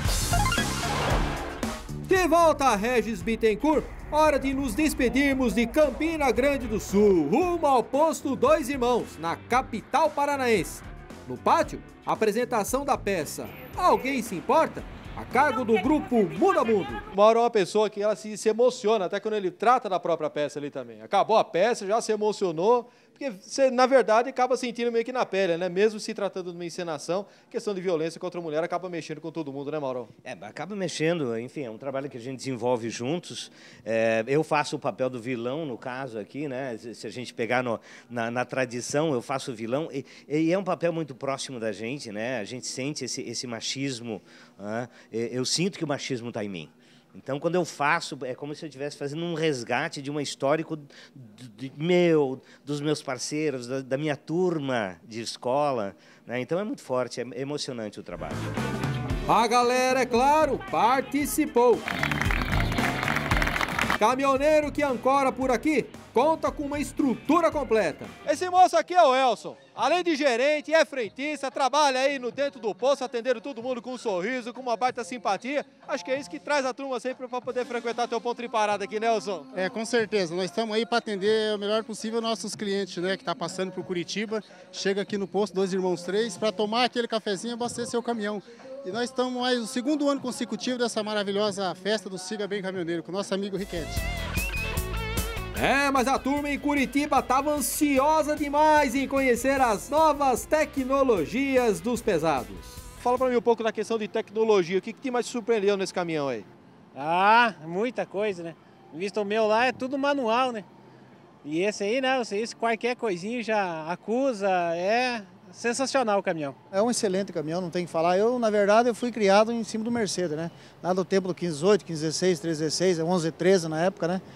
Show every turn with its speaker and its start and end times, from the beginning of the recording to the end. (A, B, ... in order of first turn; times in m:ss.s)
0:02.1-0:17.1 A
0:17.1-0:30.1 B
0:30.2-0:58.5 C
0:59.3-1:01.8 A
1:04.0-1:08.1 A
1:08.2-1:19.5 B
1:19.5-1:34.0 D
1:35.5-1:42.8 A
1:43.0-1:46.5 B
1:46.9-1:50.6 E
1:51.4-1:56.6 E
1:56.7-2:04.2 F